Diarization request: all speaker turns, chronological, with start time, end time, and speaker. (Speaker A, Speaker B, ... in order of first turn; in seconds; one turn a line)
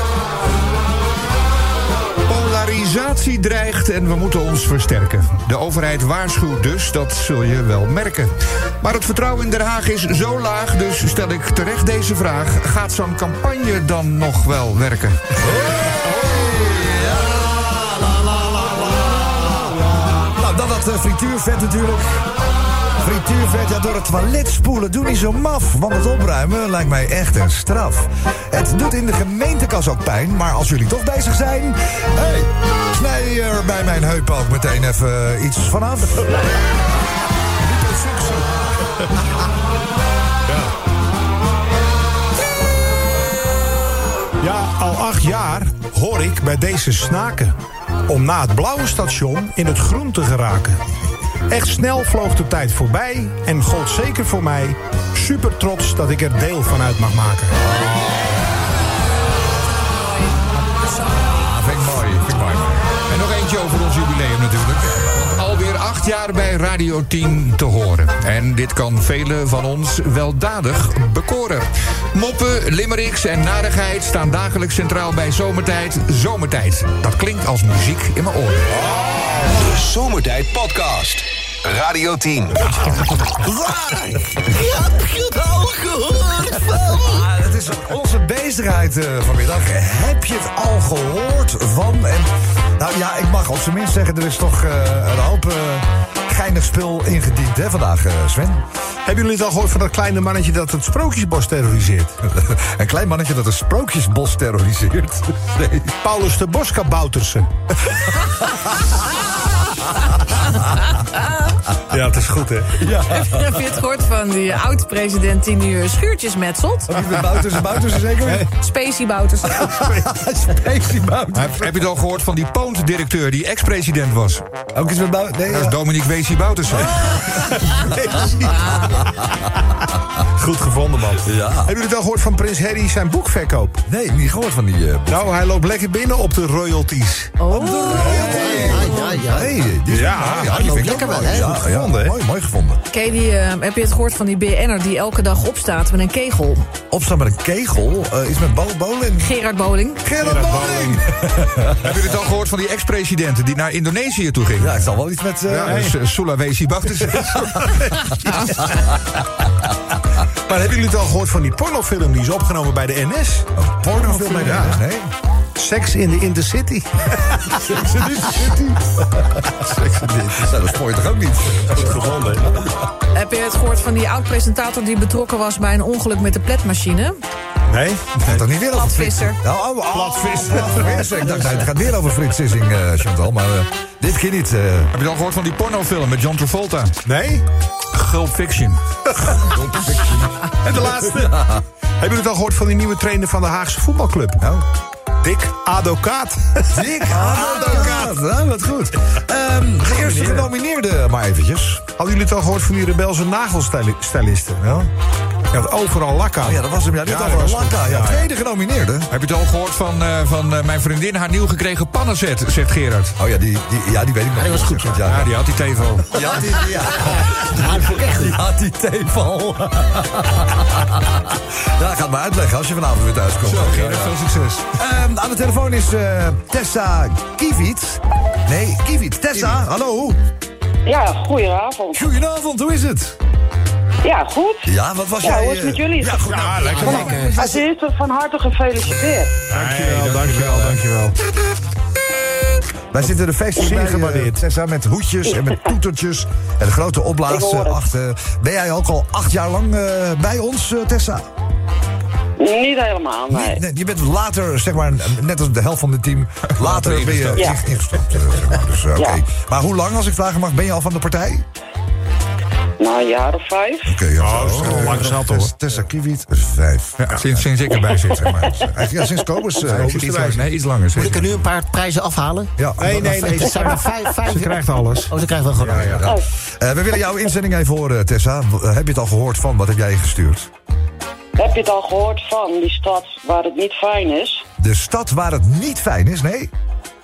Speaker A: 2.3-15.3
Speaker B: 15.4-22.3
Speaker B: 23.0-36.4
Speaker C: 37.7-38.6
Speaker C: 44.4-47.6
Speaker C: 48.1-50.8
Speaker C: 51.5-57.6
Speaker B: 57.5-58.5
Speaker D: 59.8-61.4
Speaker B: 61.2-63.0
Speaker A: 63.1-78.8
Speaker B: 65.0-65.4
Speaker E: 79.5-82.8
Speaker B: 83.4-84.3
Speaker F: 84.4-87.2
Speaker B: 86.8-98.6
Speaker C: 99.1-102.2
Speaker B: 102.2-105.9
Speaker C: 106.0-108.0
Speaker D: 111.0-111.4
Speaker C: 111.9-112.8
Speaker B: 112.8-113.7
Speaker D: 113.1-117.0
Speaker B: 116.9-118.5
Speaker D: 118.5-119.7
Speaker B: 119.5-121.7
Speaker C: 119.8-120.0
Speaker A: 121.3-124.4
Speaker B: 124.7-125.8
Speaker A: 125.5-127.0
Speaker B: 127.1-127.6
Speaker C: 127.3-129.1
Speaker B: 128.6-129.3
Speaker C: 130.2-133.8
Speaker B: 131.2-131.7
Speaker B: 133.9-135.3
Speaker C: 135.1-137.5
Speaker D: 137.4-139.2
Speaker B: 137.5-142.8
Speaker F: 137.9-139.7
Speaker C: 139.9-142.2
Speaker F: 140.4-141.6
Speaker D: 142.9-146.7
Speaker B: 146.9-149.3
Speaker D: 149.2-150.0
Speaker B: 150.0-151.9
Speaker C: 150.2-151.0
Speaker A: 151.8-154.9
Speaker B: 154.6-155.9
Speaker A: 155.5-157.8
Speaker C: 155.6-155.9
Speaker C: 157.6-158.6
Speaker C: 160.5-163.5
Speaker B: 163.6-165.1
Speaker C: 164.0-164.8
Speaker C: 165.6-167.7
Speaker B: 167.5-172.0
Speaker C: 169.6-170.3
Speaker C: 171.7-172.7
Speaker D: 173.1-177.2
Speaker C: 177.7-178.4
Speaker B: 178.2-184.9
Speaker D: 178.7-179.4
Speaker C: 179.9-181.7
Speaker A: 184.9-187.0
Speaker C: 187.1-187.4
Speaker A: 187.9-188.8
Speaker C: 189.1-189.5
Speaker B: 189.4-191.6
Speaker C: 190.6-191.4
Speaker C: 192.0-194.4
Speaker B: 194.4-194.7
Speaker C: 195.2-198.1
Speaker B: 196.7-201.8
Speaker C: 199.9-200.5
Speaker C: 202.0-204.9
Speaker C: 205.5-208.2
Speaker B: 206.4-209.1
Speaker A: 209.1-213.2
Speaker B: 213.2-215.3
Speaker F: 214.4-214.8
Speaker A: 215.0-216.1
Speaker B: 216.1-230.2
Speaker F: 216.2-218.4
Speaker A: 223.4-224.6
Speaker G: 230.9-232.2
Speaker B: 231.9-233.2
Speaker G: 234.0-239.5
Speaker B: 234.7-237.6
Speaker C: 236.3-237.5
Speaker C: 239.5-241.2
Speaker B: 239.5-240.8
Speaker B: 242.9-251.2
Speaker C: 243.6-244.4
Speaker G: 245.3-245.6
Speaker G: 247.3-247.8
Speaker G: 252.4-253.6
Speaker B: 253.3-261.4
Speaker A: 256.5-257.6
Speaker G: 257.3-257.6
Speaker G: 258.9-259.2
Speaker G: 262.8-264.0
Speaker B: 263.9-267.4
Speaker C: 264.2-265.5
Speaker A: 264.6-264.9
Speaker A: 267.0-268.8
Speaker B: 268.4-270.1
Speaker C: 269.7-270.4
Speaker A: 269.7-271.3
Speaker F: 270.9-276.1
Speaker B: 272.6-273.3
Speaker C: 272.8-275.1
Speaker B: 275.6-280.5
Speaker G: 281.4-284.4
Speaker B: 284.6-286.5